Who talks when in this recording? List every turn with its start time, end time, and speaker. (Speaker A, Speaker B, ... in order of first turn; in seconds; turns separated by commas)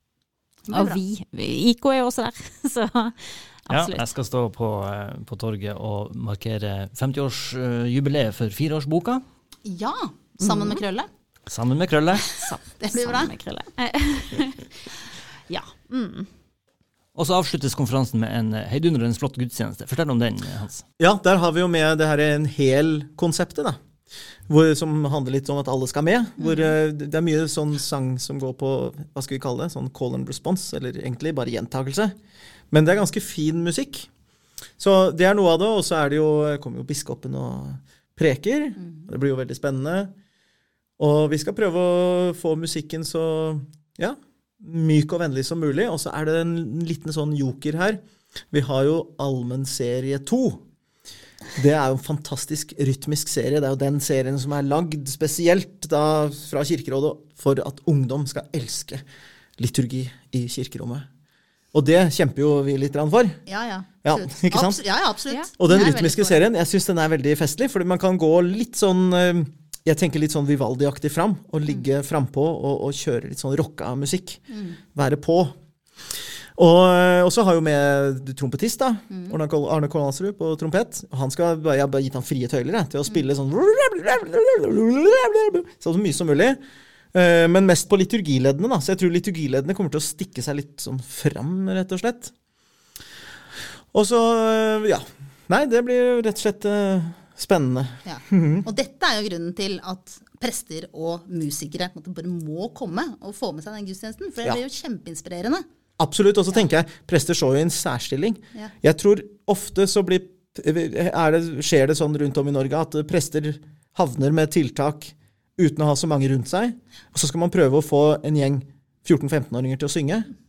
Speaker A: 0.7-1.0, Speaker B: 0.7-4.1, Speaker C: 3.7-9.2, Speaker A: 9.6-11.1, Speaker B: 10.4-10.8, Speaker C: 11.5-12.3, Speaker B: 12.3-14.9, Speaker A: 12.8-13.3, Speaker B: 15.5-16.3, Speaker C: 17.1-20.8, Speaker D: 21.0-23.8, Speaker D: 24.5-32.1, Speaker D: 32.7-34.1, Speaker D: 34.8-40.1, Speaker D: 41.0-48.0, Speaker D: 48.5-50.6, Speaker D: 51.6-59.0, Speaker D: 59.6-61.1, Speaker D: 61.7-63.5, Speaker A: 63.5-66.5, Speaker D: 64.0-64.8, Speaker D: 65.6-75.5, Speaker A: 74.5-74.8, Speaker D: 76.6-86.6, Speaker D: 87.1-92.3, Speaker D: 93.9-98.7, Speaker A: 98.0-105.7, Speaker D: 106.0-120.3